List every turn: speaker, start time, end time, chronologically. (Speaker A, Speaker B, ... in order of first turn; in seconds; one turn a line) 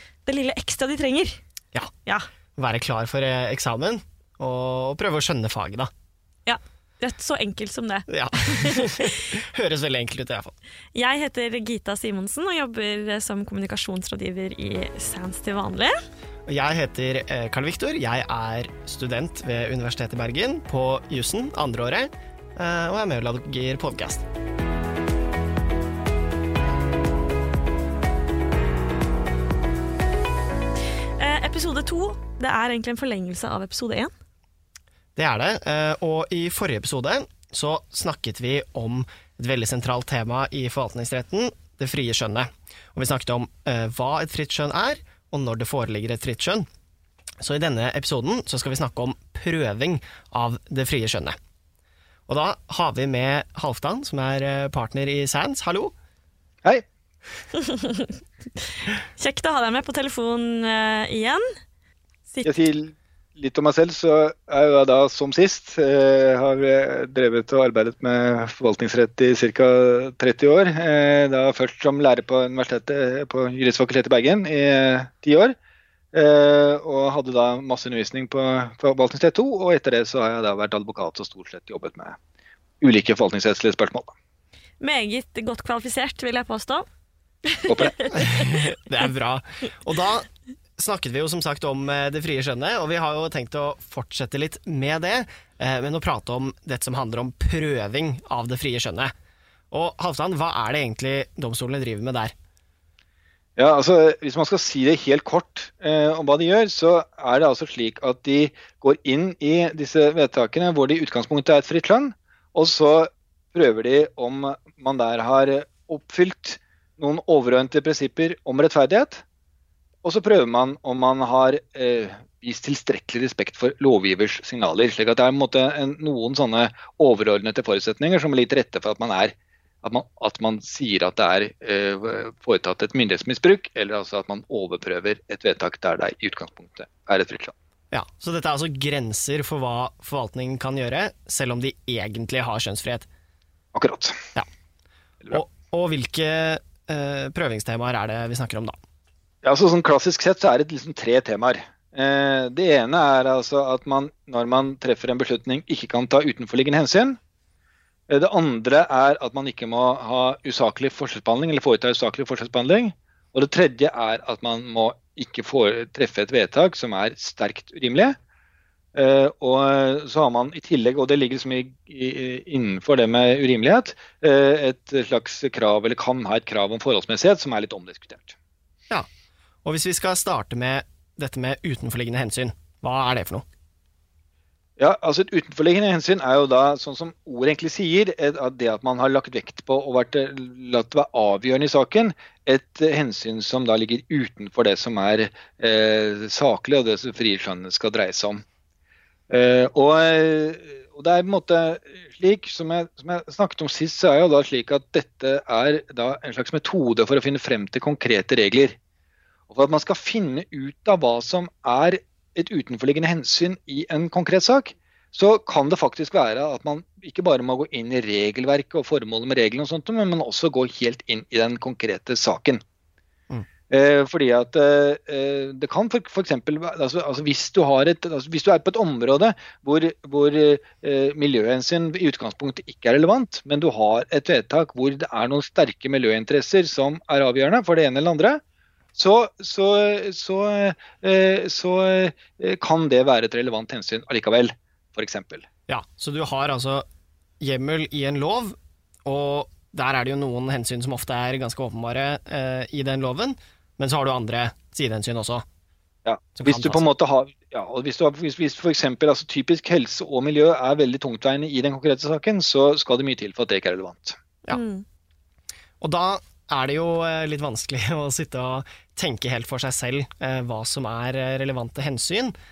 Speaker A: 0.3-1.4
Speaker B: 2.6-5.9
Speaker A: 6.5-9.1
Speaker B: 8.1-10.5
Speaker A: 10.9-15.9
Speaker B: 16.5-24.3
Speaker A: 31.2-34.1
Speaker B: 35.2-46.7
Speaker B: 47.4-51.4
Speaker B: 52.3-55.9
Speaker A: 57.6-61.4
Speaker A: 62.3-62.5
Speaker C: 62.4-75.5
Speaker C: 76.1-82.2
Speaker C: 82.8-84.2
Speaker A: 84.8-86.9
Speaker A: 87.5-88.7
Speaker C: 87.7-88.0
Speaker B: 88.1-99.1
Speaker B: 99.7-102.3
Speaker C: 103.6-119.2
Speaker C: 120.0-137.6
Speaker B: 137.9-143.1
Speaker C: 143.8-144.2
Speaker B: 145.3-148.8
Speaker C: 149.4-157.2
Speaker C: 158.1-168.2
Speaker C: 168.9-178.4
Speaker B: 179.6-183.4
Speaker C: 184.8-198.4
Speaker C: 199.3-208.8
Speaker C: 209.5-222.6
Speaker C: 223.7-238.4
Speaker C: 238.9-245.5
Speaker B: 245.7-246.9
Speaker B: 247.4-255.4
Speaker C: 256.1-264.2
Speaker B: 256.4-256.8
Speaker A: 264.5-264.9
Speaker B: 265.8-272.3